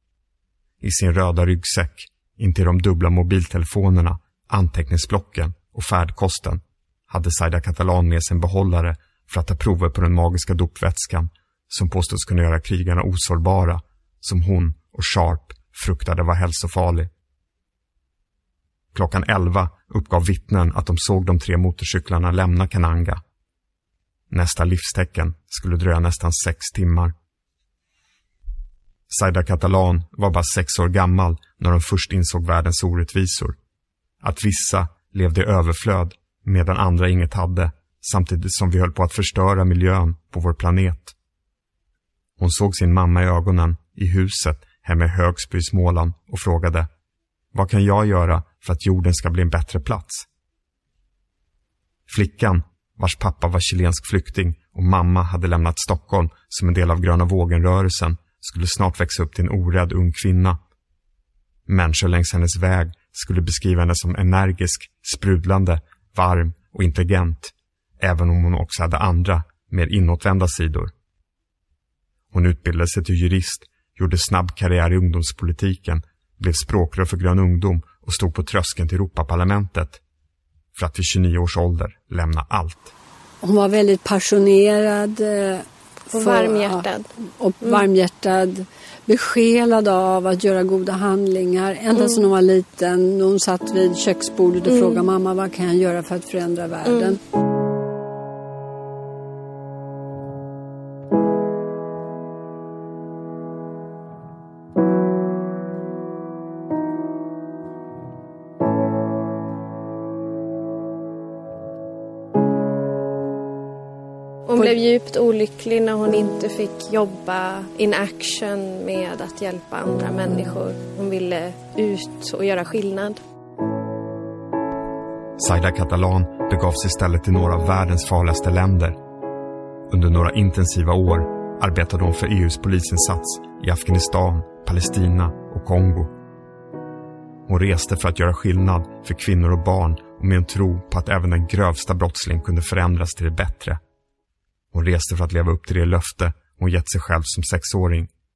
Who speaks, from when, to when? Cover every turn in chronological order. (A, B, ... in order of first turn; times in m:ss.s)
0:00.8-0:17.1 A
0:18.9-0:23.2 A
0:24.3-0:27.1 A
0:29.1-0:33.6 A
0:34.2-0:41.1 A
0:42.4-0:46.9 A
0:47.5-0:50.3 A
0:52.1-1:00.6 A
1:01.7-1:10.9 A
1:12.3-1:20.0 A
1:20.7-1:22.9 A
1:23.4-1:26.9 B
1:26.1-1:27.1 C
1:27.4-1:37.2 B
1:34.7-1:35.0 C
1:36.9-1:37.2 C
1:54.5-2:03.2 C
2:05.4-2:09.0 A
2:09.9-2:16.1 A
2:17.5-2:23.8 A
2:24.7-2:28.1 A